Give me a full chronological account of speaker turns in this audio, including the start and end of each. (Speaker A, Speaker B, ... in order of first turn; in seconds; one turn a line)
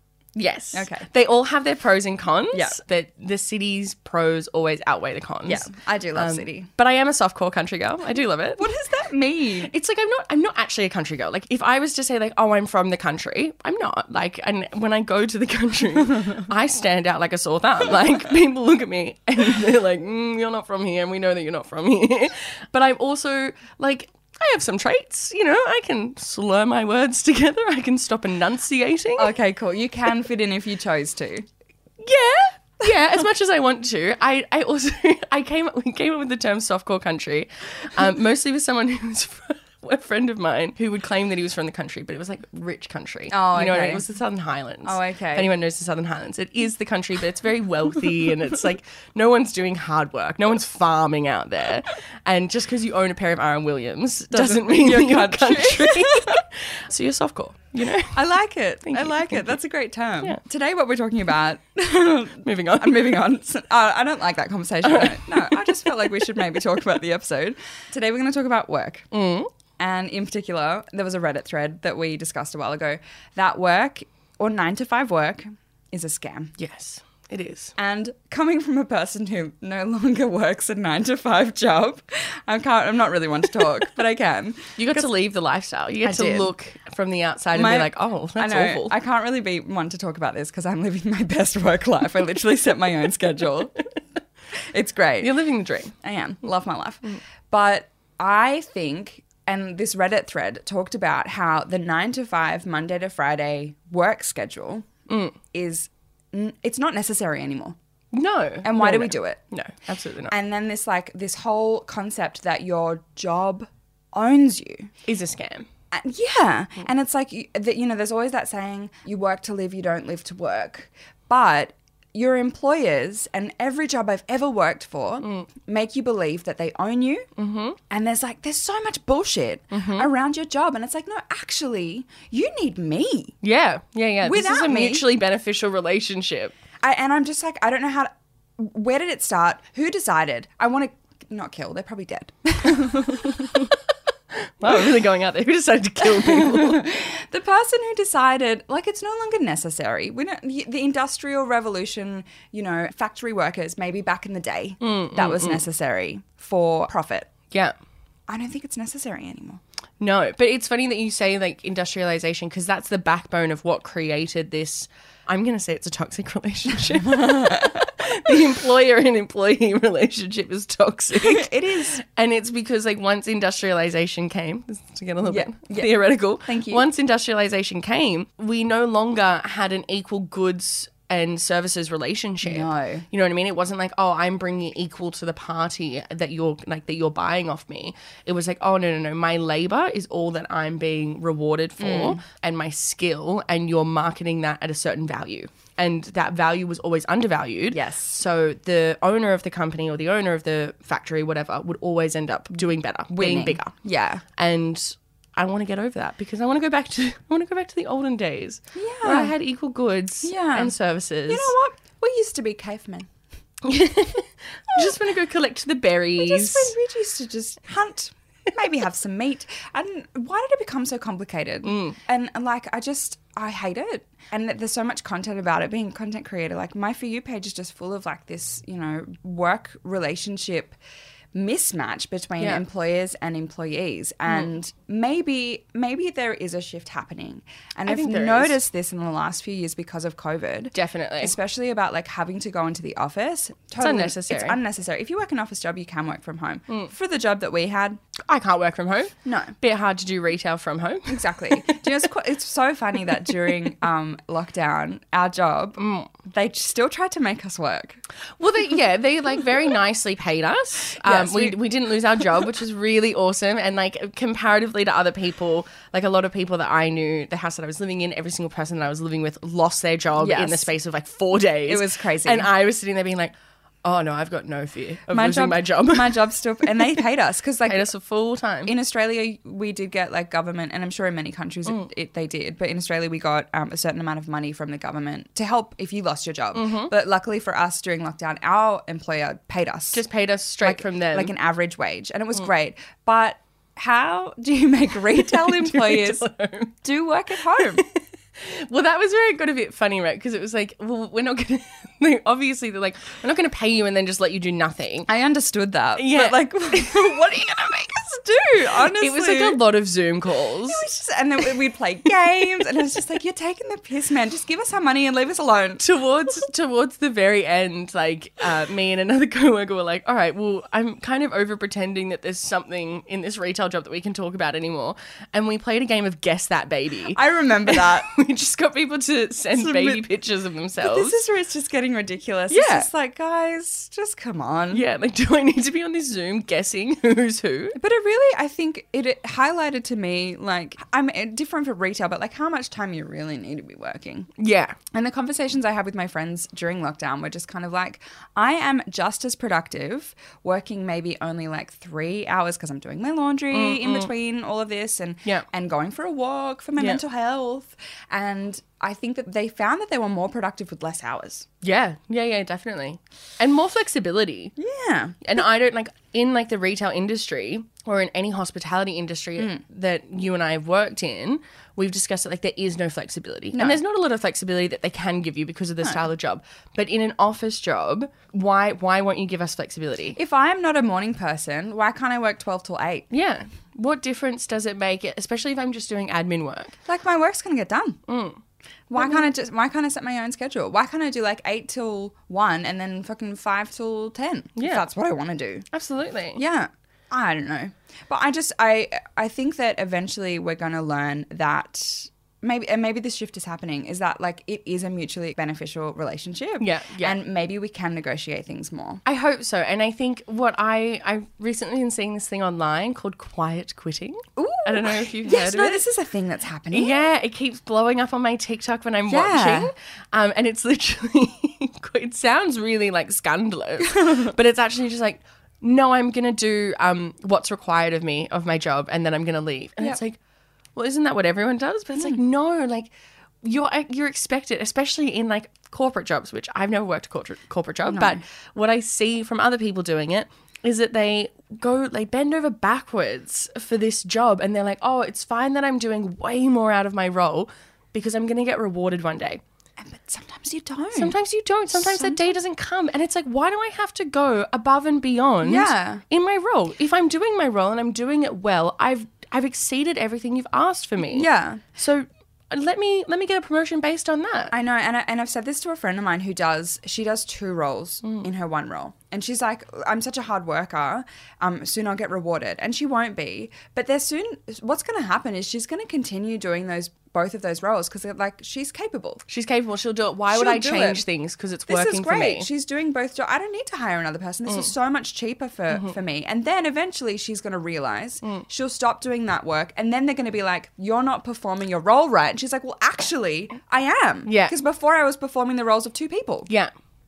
Speaker A: 0.4-8.7
Speaker B: 0.7-1.1
Speaker B: 2.5-2.8
Speaker B: 5.5-6.7
Speaker B: 8.6-9.7
Speaker A: 9.6-29.3
Speaker B: 29.2-31.5
Speaker A: 32.0-58.2
Speaker B: 43.3-44.0
Speaker B: 44.8-45.5
Speaker B: 54.3-56.4
Speaker B: 58.1-69.1
Speaker A: 58.9-59.6
Speaker A: 62.4-63.2
Speaker A: 64.8-66.2
Speaker A: 69.1-69.5
Speaker B: 69.8-76.5
Speaker A: 76.6-77.7
Speaker B: 77.8-85.0
Speaker A: 84.8-88.9
Speaker B: 86.0-86.5
Speaker B: 87.5-93.8
Speaker B: 94.7-95.4
Speaker A: 95.2-95.9
Speaker B: 96.0-104.9
Speaker A: 105.1-105.4
Speaker B: 105.5-107.8
Speaker A: 108.1-110.3
Speaker B: 108.6-109.4
Speaker B: 110.3-114.9
Speaker A: 115.1-115.7
Speaker B: 115.9-127.3
Speaker A: 127.4-127.8
Speaker B: 127.9-133.4
Speaker A: 129.7-130.1
Speaker A: 133.4-136.5
Speaker B: 134.2-135.1
Speaker B: 136.8-143.7
Speaker A: 144.3-146.9
Speaker B: 146.0-157.3
Speaker A: 154.8-155.6
Speaker B: 158.3-159.6
Speaker A: 160.0-203.7
Speaker B: 167.0-168.3
Speaker B: 171.1-172.0
Speaker B: 175.2-176.9
Speaker B: 182.4-183.1
Speaker B: 191.8-192.2
Speaker B: 197.7-198.2
Speaker B: 203.1-204.2
Speaker A: 204.3-211.5
Speaker B: 208.8-209.3
Speaker B: 210.2-210.8
Speaker B: 211.3-213.1
Speaker A: 213.6-216.8
Speaker B: 214.7-215.0
Speaker B: 216.2-230.8
Speaker A: 221.6-222.0
Speaker B: 231.3-248.0
Speaker A: 237.9-238.6
Speaker A: 240.7-241.3
Speaker A: 243.8-244.6
Speaker A: 248.3-251.8
Speaker B: 249.2-249.6
Speaker B: 251.1-258.0
Speaker A: 255.8-256.1
Speaker A: 258.4-276.2
Speaker B: 261.0-261.6
Speaker B: 270.2-270.7
Speaker B: 271.7-272.5
Speaker B: 275.1-277.9
Speaker A: 277.7-278.7
Speaker B: 278.7-290.0
Speaker A: 286.5-286.9
Speaker A: 289.9-291.3
Speaker B: 290.6-296.2
Speaker A: 295.1-296.8
Speaker B: 296.8-297.9
Speaker A: 297.6-305.1
Speaker B: 305.1-309.6
Speaker A: 306.0-307.0
Speaker A: 308.9-310.9
Speaker B: 310.6-315.8
Speaker A: 315.8-331.2
Speaker B: 327.1-328.1
Speaker B: 329.5-330.1
Speaker B: 330.8-334.9
Speaker A: 332.5-332.9
Speaker A: 334.7-337.8
Speaker B: 337.8-344.3
Speaker A: 344.4-344.8
Speaker B: 344.9-361.5
Speaker A: 353.5-354.1
Speaker A: 361.6-364.5
Speaker B: 364.6-365.2
Speaker A: 365.2-380.2
Speaker B: 373.5-373.8
Speaker B: 380.2-383.1
Speaker A: 383.1-386.8
Speaker B: 386.9-388.0
Speaker A: 388.1-388.4
Speaker B: 388.9-395.7
Speaker A: 389.0-389.3
Speaker A: 394.6-394.8
Speaker A: 395.7-396.4
Speaker B: 396.4-409.0
Speaker A: 406.6-407.2
Speaker A: 409.1-415.8
Speaker B: 414.4-417.0
Speaker A: 416.7-430.2
Speaker B: 419.1-419.7
Speaker B: 423.9-424.3
Speaker A: 430.8-432.9
Speaker A: 433.4-449.4
Speaker B: 437.9-438.2
Speaker B: 449.8-451.2
Speaker A: 450.9-464.5
Speaker B: 451.7-452.3
Speaker B: 455.4-456.0
Speaker B: 461.1-461.6
Speaker B: 464.5-479.2
Speaker A: 479.3-482.5
Speaker B: 480.3-481.0
Speaker B: 481.7-496.5
Speaker A: 485.7-486.0
Speaker A: 494.3-494.6